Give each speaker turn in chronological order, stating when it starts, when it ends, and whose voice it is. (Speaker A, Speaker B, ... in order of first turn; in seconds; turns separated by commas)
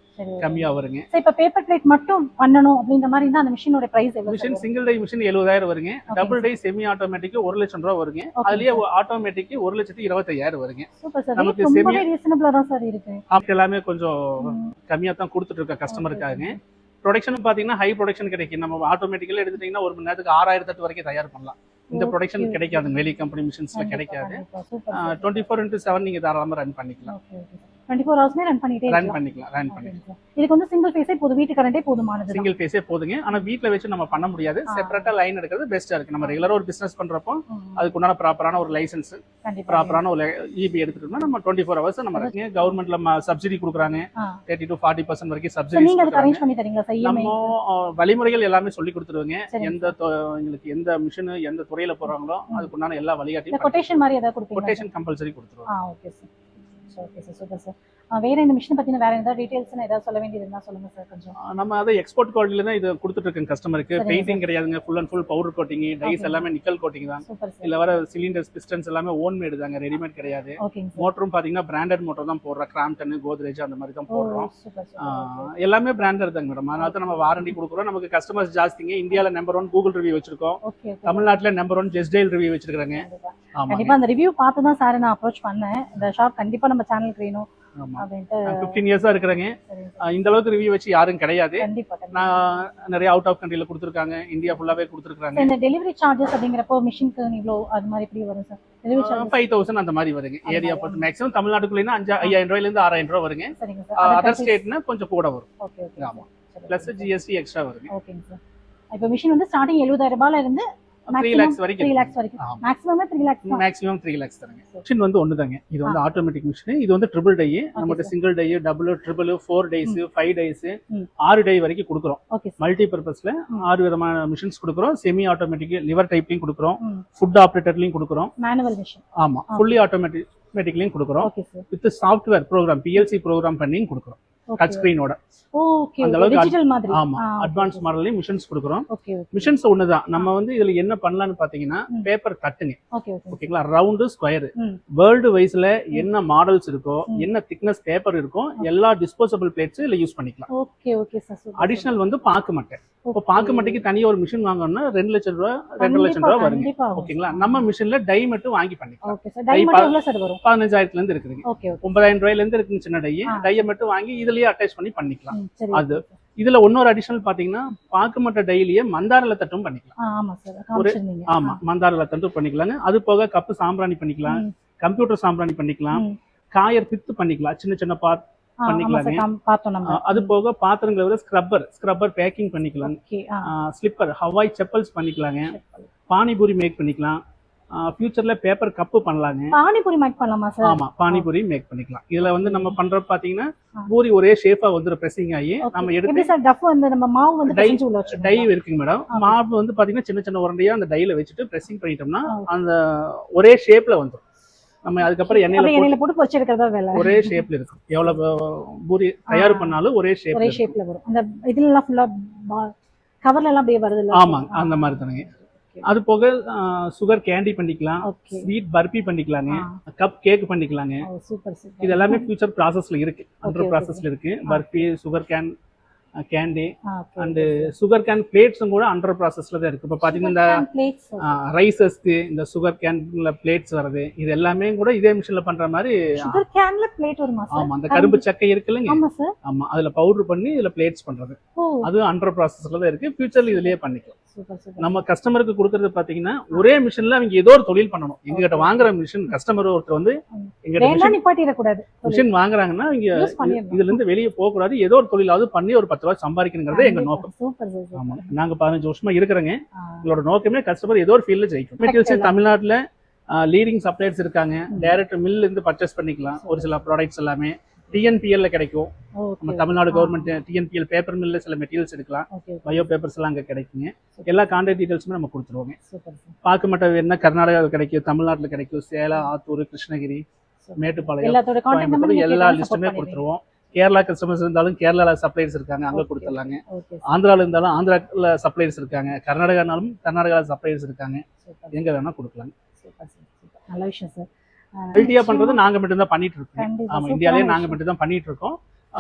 Speaker A: 0.2-4.7, Speaker B: 0.4-1.1, Speaker B: 4.3-12.1, Speaker A: 6.1-6.5, Speaker A: 8.4-8.8, Speaker A: 11.0-13.2, Speaker B: 13.3-24.4, Speaker A: 14.4-14.8, Speaker A: 15.9-16.6, Speaker A: 21.9-22.9, Speaker A: 23.7-25.5, Speaker B: 24.9-27.1, Speaker A: 27.1-32.5, Speaker B: 28.9-29.9, Speaker B: 32.3-46.4, Speaker A: 34.7-35.1, Speaker A: 37.5-37.9, Speaker A: 39.4-40.0, Speaker A: 42.1-42.7, Speaker A: 45.7-47.5, Speaker B: 47.0-54.0, Speaker A: 49.5-49.9, Speaker A: 53.5-54.9, Speaker B: 54.6-55.7, Speaker A: 55.7-61.4, Speaker B: 61.4-84.0, Speaker A: 64.0-64.5, Speaker A: 66.0-66.4, Speaker A: 67.2-67.7, Speaker A: 70.6-71.1, Speaker A: 74.1-75.5, Speaker A: 76.8-77.6, Speaker A: 80.6-81.4, Speaker A: 83.0-88.8, Speaker B: 87.8-95.5, Speaker A: 89.6-90.2, Speaker A: 91.6-92.7, Speaker A: 95.3-99.5, Speaker B: 99.0-105.5, Speaker A: 100.5-101.0, Speaker A: 103.6-104.6, Speaker A: 105.6-107.1, Speaker B: 106.0-107.9, Speaker A: 107.9-108.4, Speaker A: 108.9-113.6, Speaker B: 111.1-112.6, Speaker B: 113.5-128.3, Speaker A: 117.8-118.1, Speaker A: 122.3-122.6, Speaker A: 126.8-127.1, Speaker A: 128.4-129.7, Speaker B: 129.2-135.2, Speaker A: 131.2-131.7, Speaker A: 134.5-134.9, Speaker A: 135.5-137.8, Speaker B: 136.0-142.8, Speaker A: 138.9-139.6, Speaker A: 142.9-143.4, Speaker B: 143.3-150.5, Speaker A: 150.5-152.0, Speaker B: 151.6-169.9, Speaker A: 153.1-153.8, Speaker A: 155.8-157.7, Speaker A: 159.1-160.4, Speaker A: 161.4-162.0, Speaker A: 163.3-163.7, Speaker A: 165.3-166.1, Speaker A: 170.0-171.6, Speaker B: 170.8-179.2, Speaker A: 174.3-174.5, Speaker A: 175.9-176.2, Speaker A: 178.6-180.3, Speaker B: 179.8-185.6, Speaker A: 182.8-183.5, Speaker A: 185.5-185.9, Speaker B: 186.1-187.2, Speaker B: 187.7-189.6, Speaker A: 189.5-191.3, Speaker B: 190.6-196.3, Speaker A: 192.2-192.8, Speaker A: 195.6-198.5, Speaker B: 197.5-204.2, Speaker A: 199.1-199.4, Speaker B: 204.8-206.0, Speaker A: 205.0-207.5, Speaker B: 206.9-210.7, Speaker A: 209.3-209.8, Speaker A: 210.3-215.9, Speaker B: 214.1-215.3, Speaker B: 215.8-221.1, Speaker A: 218.0-218.5, Speaker A: 219.5-219.8, Speaker A: 221.0-222.3, Speaker B: 221.8-225.5, Speaker A: 223.4-224.8, Speaker B: 226.3-230.6, Speaker A: 226.9-227.7, Speaker A: 230.0-231.4, Speaker B: 231.2-236.4, Speaker A: 236.2-238.2, Speaker B: 237.5-244.1, Speaker A: 238.9-239.3, Speaker A: 241.6-241.9, Speaker A: 243.4-243.8, Speaker A: 244.3-245.0, Speaker B: 244.8-251.2, Speaker A: 248.3-248.9, Speaker A: 250.3-252.3, Speaker B: 252.1-257.3, Speaker A: 253.1-254.0, Speaker A: 256.7-258.4, Speaker B: 257.9-262.8, Speaker A: 261.8-262.4, Speaker B: 263.3-268.9, Speaker A: 264.7-265.0, Speaker A: 266.4-266.8, Speaker A: 269.2-270.3, Speaker B: 269.4-275.8, Speaker A: 272.3-272.9, Speaker A: 274.1-274.5, Speaker A: 275.9-276.4, Speaker B: 276.4-280.2, Speaker A: 280.6-283.2, Speaker B: 280.8-292.5, Speaker A: 285.9-287.1, Speaker A: 291.4-291.9, Speaker A: 292.8-295.6, Speaker B: 294.9-298.6, Speaker A: 296.6-297.8